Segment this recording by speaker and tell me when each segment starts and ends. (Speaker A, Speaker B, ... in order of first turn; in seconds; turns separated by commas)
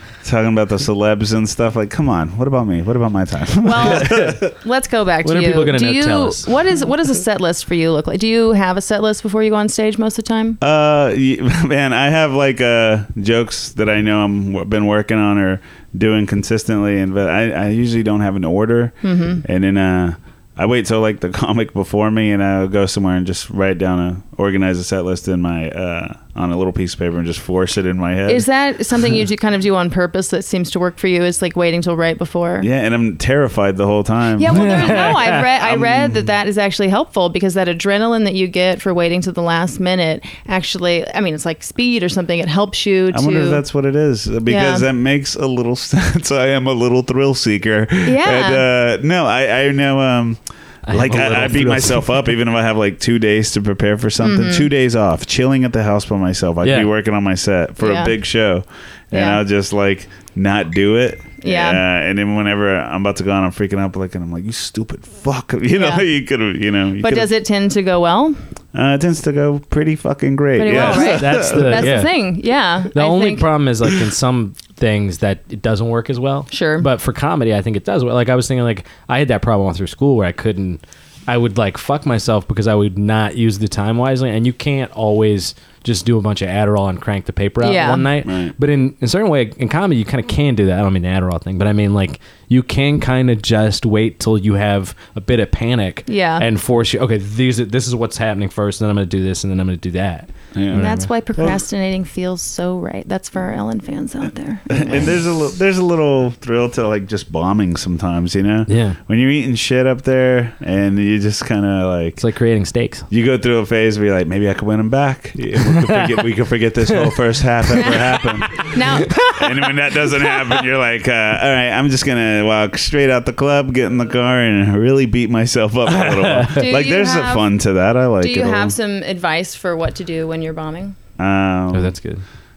Speaker A: 0.2-4.5, Speaker B: 3.6-10.6, Speaker C: 3.9-4.3, Speaker C: 5.2-6.6, Speaker A: 10.6-28.5, Speaker B: 19.0-19.4, Speaker B: 28.3-32.7, Speaker A: 32.6-36.2, Speaker B: 34.4-43.6, Speaker C: 34.5-35.5, Speaker A: 43.1-67.3, Speaker B: 44.5-44.9, Speaker B: 48.0-48.6, Speaker C: 50.9-52.2, Speaker B: 54.2-54.7, Speaker C: 56.6-56.9, Speaker B: 57.8-58.1, Speaker B: 59.1-59.4, Speaker B: 61.4-61.8, Speaker B: 65.7-66.0, Speaker B: 67.0-68.4, Speaker A: 68.7-71.9, Speaker B: 70.6-73.5, Speaker C: 70.7-72.1, Speaker C: 72.9-101.1, Speaker B: 76.5-76.9, Speaker B: 87.6-88.1, Speaker A: 88.2-88.5, Speaker B: 96.1-96.5, Speaker A: 100.5-101.6, Speaker B: 100.7-105.1, Speaker A: 104.7-112.2, Speaker C: 108.7-109.0, Speaker C: 112.2-113.0, Speaker A: 113.1-128.7, Speaker C: 115.6-116.2, Speaker C: 116.9-119.3, Speaker B: 118.6-119.3, Speaker C: 125.9-126.7, Speaker B: 126.5-127.5, Speaker B: 128.2-130.9, Speaker A: 131.2-131.9, Speaker C: 131.7-132.2